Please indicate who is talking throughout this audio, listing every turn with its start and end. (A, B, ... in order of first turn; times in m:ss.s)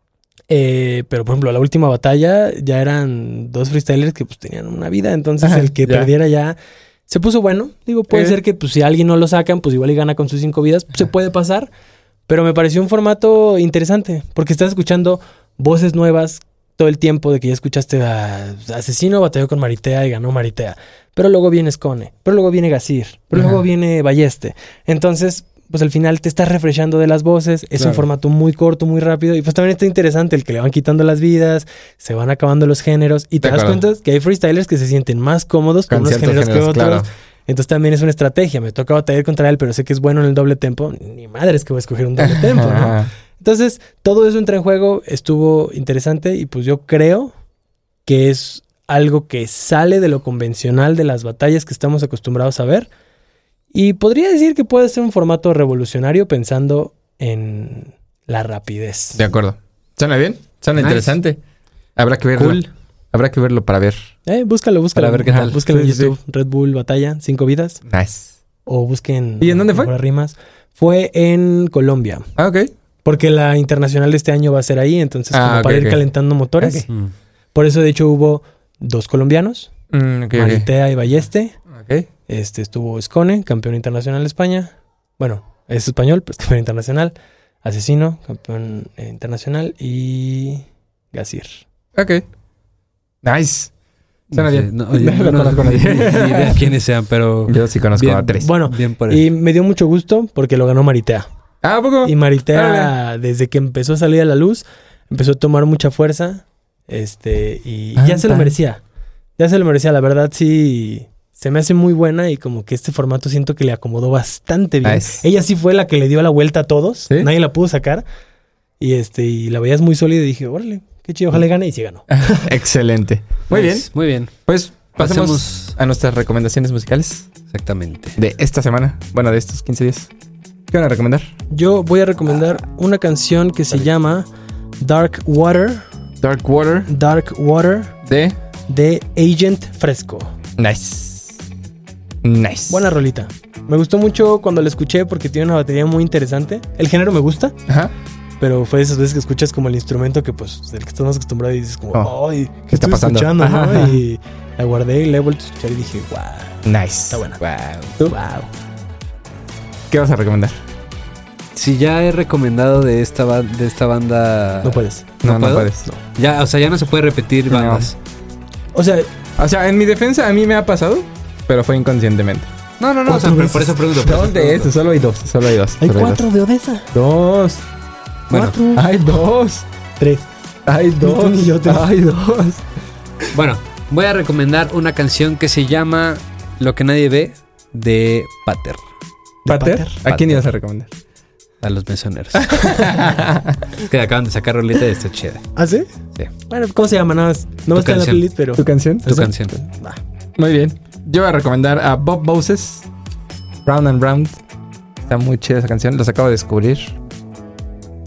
0:00.5-0:06.6 A
0:05.4-0:06.1 B
0:07.1-0:11.7 A
0:08.1-0:08.4 B
0:12.3-0:47.3 A
0:23.4-0:23.6 B
0:27.8-0:28.0 C
0:33.4-0:33.8 B
0:35.9-0:37.1 B
0:42.2-0:43.1 B
0:48.1-0:52.9 A
0:53.7-0:59.2 A
0:59.2-1:01.4 B
1:00.8-1:01.2 C
1:02.0-1:04.1 B
1:02.4-1:02.7 C
1:04.3-1:07.8 A
1:05.0-1:05.6 C
1:05.3-1:06.2 B
1:07.9-1:08.3 B
1:08.7-1:12.3 A
1:09.4-1:09.9 B
1:12.4-1:12.7 B
1:13.0-1:16.9 A
1:15.3-1:16.0 B
1:17.5-1:19.7 A
1:19.9-1:20.7 B
1:20.4-1:21.6 A
1:21.7-1:22.1 B
1:22.3-1:31.6 A
1:32.0-1:32.2 B
1:33.2-1:33.7 B
1:34.3-1:39.2 C
1:34.3-1:36.7 B
1:37.5-1:38.5 B
1:38.4-1:41.3 A
1:41.6-1:42.9 B
1:42.0-1:48.8 A
1:48.0-1:48.5 B
1:49.4-1:58.0 A
1:54.8-1:55.2 B
1:58.8-2:02.4 A
2:02.1-2:03.9 B
2:03.5-2:04.3 C
2:04.5-2:07.3 B
2:05.0-2:05.8 C
2:07.5-2:08.2 C
2:08.2-2:10.1 B
2:10.7-2:11.3 B
2:11.5-2:14.3 A
2:14.8-2:15.8 A
2:16.2-2:16.9 B
2:16.9-2:18.0 A
2:18.0-2:18.4 B
2:18.7-2:20.3 A
2:20.6-2:21.4 B
2:22.2-2:22.9 B
2:22.7-2:27.6 A
2:27.7-2:27.9 B
2:28.4-2:37.4 A
2:32.7-2:34.0 B
2:36.6-2:37.2 B
2:37.4-2:38.0 C
2:38.0-2:38.5 A
2:39.9-2:40.6 B
2:41.6-2:48.0 C
2:44.6-2:45.2 A
2:45.2-2:45.9 B
2:47.5-2:47.9 B
2:48.7-2:49.1 A
2:49.4-2:52.5 B
2:52.8-2:54.7 C
2:53.1-2:53.8 A
2:54.0-2:56.2 B
2:55.8-2:56.9 A
2:56.9-2:57.6 B
2:58.3-2:58.6 C
2:58.3-2:58.9 A
2:58.7-2:59.7 B
3:00.0-3:00.3 A
3:00.7-3:02.6 B
3:01.0-3:01.9 A
3:03.3-3:08.8 C
3:09.4-3:10.0 A
3:09.5-3:10.9 B
3:10.1-3:10.4 C
3:11.6-3:12.9 C
3:12.3-3:13.7 B
3:13.8-3:15.4 C
3:15.6-3:15.9 A
3:16.5-3:20.0 A
3:17.7-3:18.2 C
3:18.6-3:19.2 B
3:19.1-3:19.6 C
3:20.4-3:22.9 B
3:23.6-3:24.4 B
3:25.0-3:27.0 B